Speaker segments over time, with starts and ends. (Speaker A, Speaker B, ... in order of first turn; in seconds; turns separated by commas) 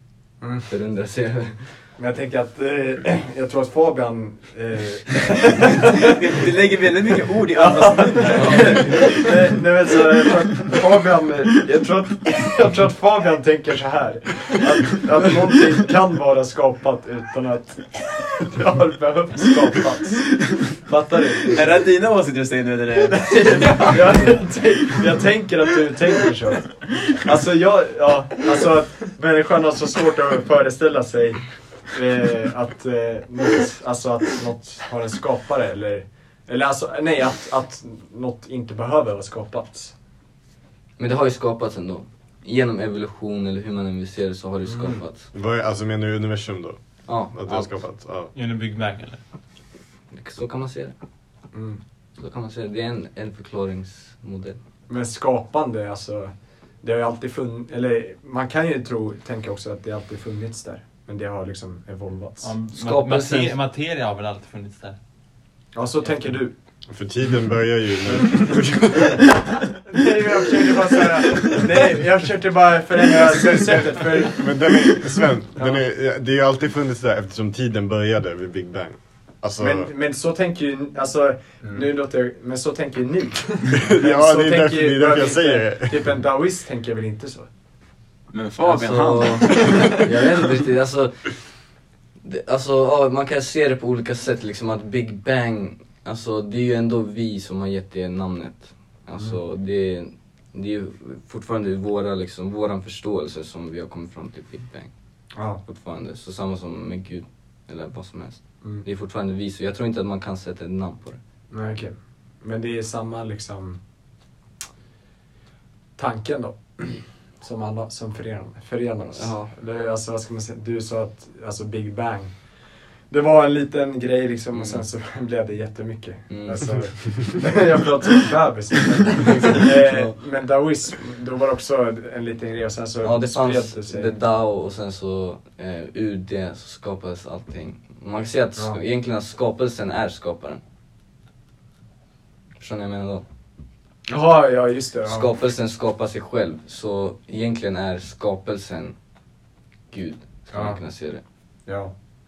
Speaker A: 0.4-0.7, Speaker B: 0.7-1.8, Speaker A: 2.0-6.1, Speaker C: 6.0-10.1, Speaker A: 7.5-21.8, Speaker B: 8.4-8.9, Speaker C: 20.4-20.7, Speaker C: 21.4-24.5, Speaker A: 23.5-39.9, Speaker B: 41.0-45.3, Speaker A: 44.7-45.0, Speaker D: 45.3-46.8, Speaker B: 47.1-47.8, Speaker D: 47.3-48.3, Speaker E: 48.3-49.2, Speaker B: 50.1-50.9, Speaker A: 51.5-51.8, Speaker B: 52.2-54.6, Speaker A: 54.9-62.5, Speaker E: 62.4-65.0, Speaker B: 62.7-63.6, Speaker A: 65.7-66.5, Speaker D: 66.9-69.3, Speaker A: 69.7-75.8, Speaker D: 74.2-79.9, Speaker A: 79.6-87.5, Speaker D: 83.7-86.1, Speaker C: 88.3-89.9, Speaker B: 88.6-91.5, Speaker B: 92.2-104.9, Speaker A: 105.3-105.6, Speaker B: 105.6-111.2, Speaker A: 111.5-113.8, Speaker A: 116.0-122.3, Speaker B: 119.1-119.5, Speaker A: 123.1-134.2, Speaker B: 124.5-124.8, Speaker B: 126.3-126.7, Speaker B: 129.8-130.2, Speaker B: 133.0-140.6, Speaker B: 142.6-143.2, Speaker A: 144.1-145.3, Speaker B: 145.1-148.9, Speaker B: 149.9-151.2, Speaker A: 150.5-150.8, Speaker A: 151.7-151.9